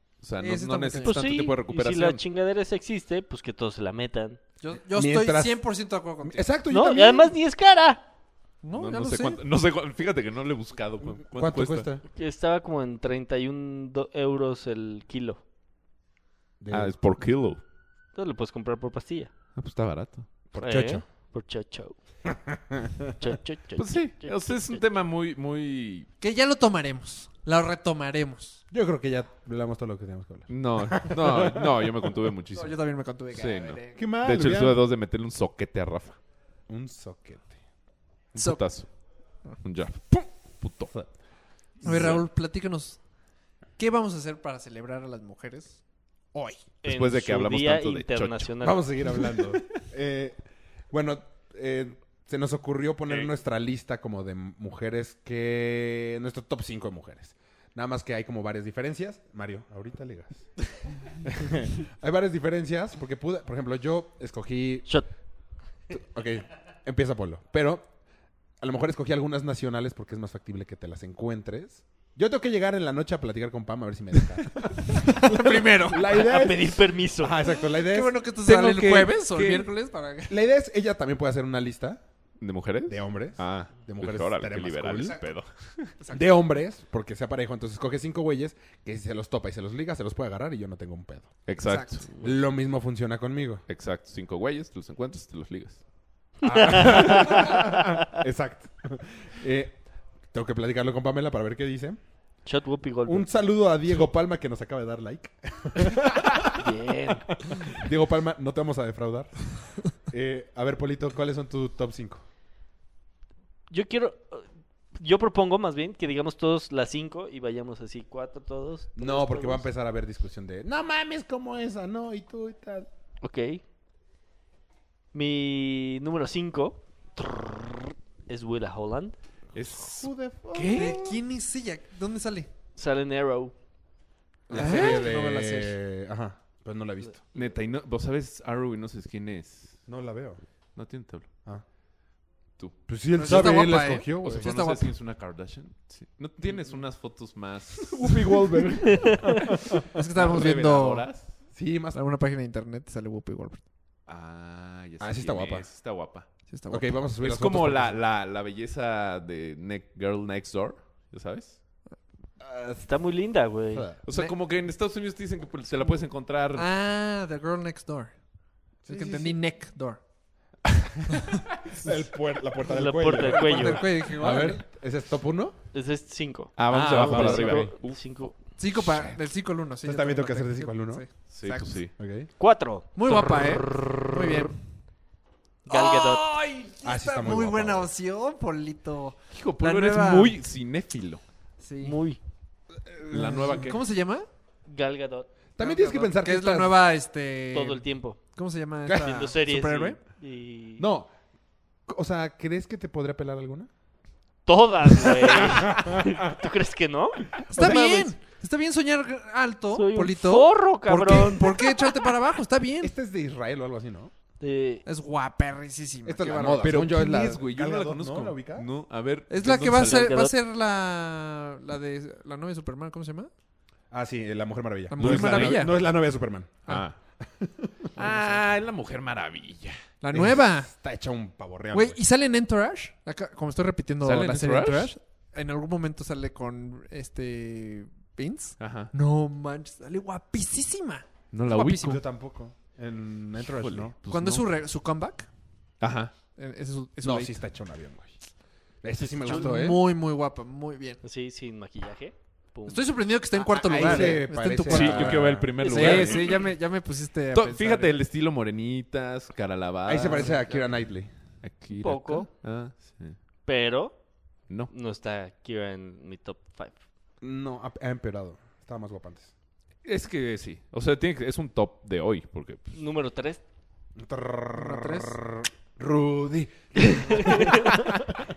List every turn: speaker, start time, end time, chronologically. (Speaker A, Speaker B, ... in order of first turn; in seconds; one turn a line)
Speaker A: 0.2-2.2
Speaker B: 0.4-1.2
Speaker C: 1.0-4.4
Speaker B: 4.6-6.5
Speaker D: 4.9-7.4
Speaker C: 6.7-8.0
Speaker B: 8.6-9.4
Speaker A: 8.8-11.9
Speaker D: 11.2-12.0
Speaker C: 12.1-15.4
Speaker D: 16.6-17.0
Speaker A: 16.7-17.6
Speaker C: 18.1-19.3
Speaker A: 19.6-20.3
Speaker D: 20.5-21.0
Speaker C: 20.6-21.9
Speaker D: 22.3-23.1
Speaker C: 23.1-25.0
Speaker A: 23.8-26.1
Speaker B: 26.2-28.6
Speaker D: 28.7-32.3
Speaker A: 30.5-36.2
Speaker B: 32.5-34.0
Speaker D: 33.9-34.9
Speaker D: 36.7-37.6
Speaker A: 38.4-38.9
Speaker B: 38.4-38.6
Speaker A: 39.5-41.1
Speaker B: 41.8-43.0
Speaker D: 41.8-42.2
Speaker A: 41.9-42.2
Speaker B: 43.8-45.8
Speaker B: 46.3-46.6
Speaker A: 46.8-48.5
Speaker C: 46.8-49.3
Speaker D: 48.6-50.4
Speaker D: 50.9-60.5
Speaker D: 61.2-64.9
Speaker D: 65.9-67.9
Speaker D: 68.6-78.2
Speaker B: 74.9-76.1
Speaker C: 76.1-77.4
Speaker B: 77.5-80.4
Speaker A: 78.4-79.7
Speaker D: 80.3-82.0
Speaker A: 82.4-86.0
Speaker D: 82.9-85.2
Speaker B: 86.0-86.3
Speaker D: 86.1-91.4
Speaker A: 91.5-92.1
Speaker B: 91.6-92.0
Speaker D: 92.2-93.6
Speaker A: 93.7-95.8
Speaker D: 96.4-99.8
Speaker C: 96.4-98.0
Speaker D: 100.3-102.0
Speaker C: 102.5-103.3
Speaker D: 103.1-106.7
Speaker C: 106.5-107.4
Speaker D: 107.5-109.3
Speaker D: 109.9-112.2
Speaker C: 113.7-119.7
Speaker D: 119.0-122.9
Speaker C: 123.2-123.6
Speaker C: 125.1-129.2
Speaker A: 129.5-131.1
Speaker D: 129.7-131.1
Speaker B: 130.7-132.5
Speaker C: 132.8-133.5
Speaker B: 134.5-135.8
Speaker D: 134.5-137.2
Speaker A: 134.5-135.1
Speaker A: 137.3-139.8
Speaker D: 139.9-140.4
Speaker A: 140.8-141.3
Speaker A: 142.6-143.7
Speaker D: 142.9-144.5
Speaker B: 143.2-144.9
Speaker A: 144.2-149.0
Speaker D: 147.8-149.9
Speaker C: 148.9-149.3
Speaker B: 149.9-151.1
Speaker A: 150.2-151.3
Speaker D: 151.5-152.0
Speaker B: 151.9-153.6
Speaker A: 154.1-156.3
Speaker D: 155.0-155.7
Speaker B: 156.5-157.0
Speaker D: 156.7-158.0
Speaker A: 157.2-161.6
Speaker D: 162.4-162.9
Speaker C: 162.8-163.9
Speaker D: 163.7-164.0
Speaker A: 164.0-166.7
Speaker B: 166.5-168.2
Speaker D: 168.8-169.4
Speaker B: 168.8-170.0
Speaker D: 171.7-175.6
Speaker C: 172.6-174.0
Speaker B: 173.2-174.6
Speaker C: 175.7-178.3
Speaker A: 176.6-178.3
Speaker D: 176.7-177.7
Speaker B: 178.6-181.8
Speaker D: 178.8-179.2
Speaker D: 179.8-181.1
Speaker A: 181.3-181.9
Speaker D: 182.0-182.3
Speaker C: 182.4-182.9
Speaker B: 183.0-184.6
Speaker C: 185.7-186.3
Speaker B: 185.7-190.4
Speaker D: 186.8-187.9
Speaker A: 189.3-191.2
Speaker B: 191.6-192.0
Speaker C: 191.8-192.2
Speaker D: 192.9-193.6
Speaker A: 193.1-193.8
Speaker B: 193.3-194.3
Speaker C: 194.7-195.3
Speaker D: 195.6-196.8
Speaker B: 195.6-200.0
Speaker C: 197.5-198.2
Speaker C: 198.9-200.9
Speaker D: 200.8-201.1
Speaker D: 201.9-203.7
Speaker C: 204.5-208.1
Speaker D: 205.0-206.0
Speaker D: 207.4-208.0
Speaker B: 207.5-212.9
Speaker C: 209.7-212.0
Speaker D: 211.0-211.3
Speaker D: 212.8-214.1
Speaker C: 214.4-214.8
Speaker B: 214.9-216.9
Speaker D: 216.1-218.7
Speaker A: 216.6-220.1
Speaker B: 219.3-223.3
Speaker C: 219.6-220.3
Speaker D: 223.9-226.7
Speaker B: 224.9-225.8
Speaker A: 225.0-225.8
Speaker A: 226.7-227.0
Speaker D: 227.2-227.9
Speaker A: 228.0-229.8
Speaker B: 228.0-228.4
Speaker B: 230.0-230.7
Speaker D: 230.1-232.0
Speaker B: 231.7-242.0
Speaker A: 234.0-234.9
Speaker A: 238.6-238.9
Speaker A: 241.3-242.0
Speaker D: 241.6-243.9
Speaker A: 243.4-244.5
Speaker B: 244.1-245.3
Speaker A: 245.8-246.1
Speaker B: 246.3-247.4
Speaker D: 247.0-248.2
Speaker D: 248.8-249.9
Speaker B: 249.2-251.0
Speaker C: 251.0-252.9
Speaker B: 252.7-258.0
Speaker D: 253.4-256.3
Speaker A: 253.8-256.5
Speaker A: 257.3-260.5
Speaker D: 259.9-261.1
Speaker B: 260.1-260.7
Speaker A: 261.4-263.2
Speaker C: 261.7-262.3
Speaker C: 263.5-264.0
Speaker C: 264.7-266.8
Speaker D: 267.2-269.3
Speaker A: 269.8-272.8
Speaker C: 272.7-273.4
Speaker D: 274.0-278.2
Speaker B: 274.6-275.2
Speaker C: 276.8-277.8